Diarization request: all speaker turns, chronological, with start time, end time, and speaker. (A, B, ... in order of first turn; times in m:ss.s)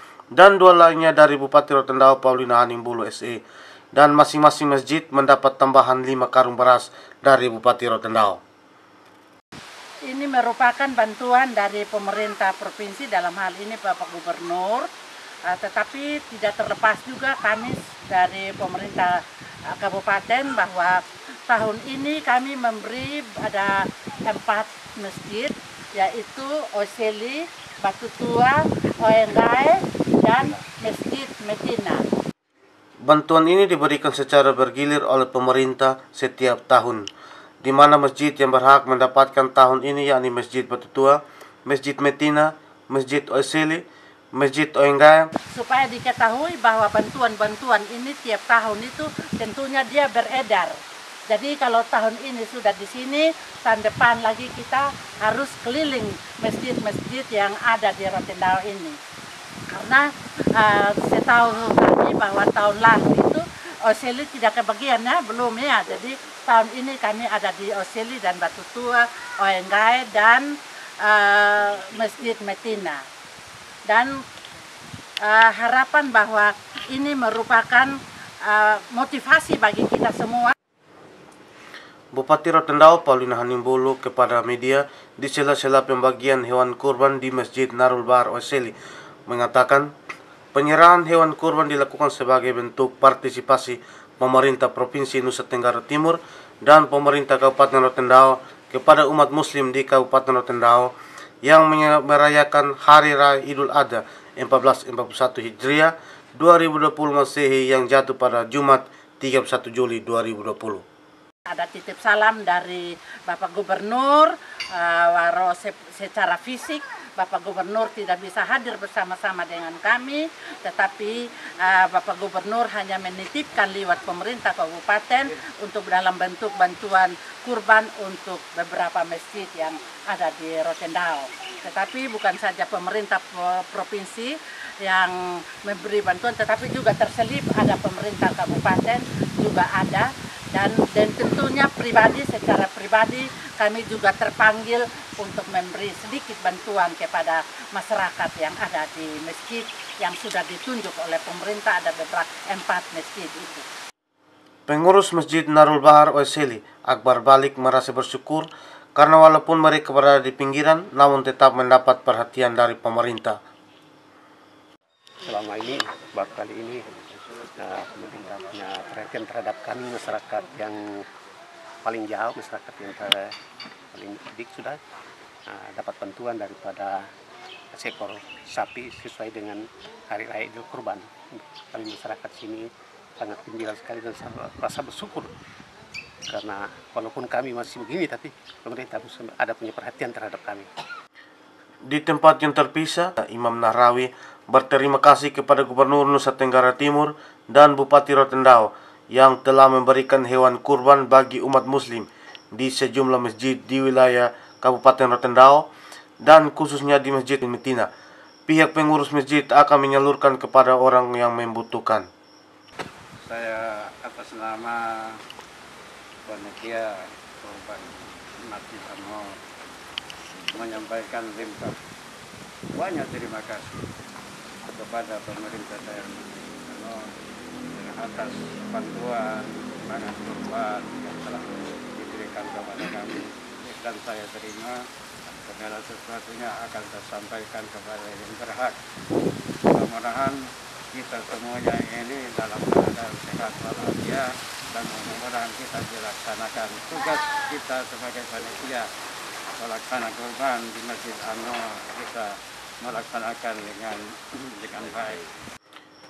0:00.3-0:08.4 A
0:10.1-0:14.9 B
0:15.4-0:32.0 B
0:33.0-0:37.1 A
0:37.6-0:43.8 A
0:44.4-0:45.3 A
0:45.5-0:59.0 B
0:59.7-1:13.0 B
1:13.8-1:14.2 B
1:15.2-1:20.5 B
1:22.1-1:28.8 A
1:29.3-1:29.9 A
1:30.5-1:40.9 A
1:41.4-1:50.8 A
1:51.5-2:33.7 B
2:34.7-2:43.4 A
2:45.2-2:51.1 C
2:51.8-2:53.3 C
2:53.9-2:54.8 C
2:55.5-2:57.1 C
2:57.7-3:05.3 C
3:06.3-3:10.7 C
3:11.8-3:25.7 A
3:26.2-3:27.9 A
3:28.5-3:32.1 A
3:33.2-3:35.2 D
3:36.3-3:39.3 D
3:40.5-3:41.8 D
3:42.7-3:43.7 D
3:44.7-3:47.0 D
3:47.7-3:58.8 D
3:59.7-4:08.9 D
4:09.6-4:15.2 D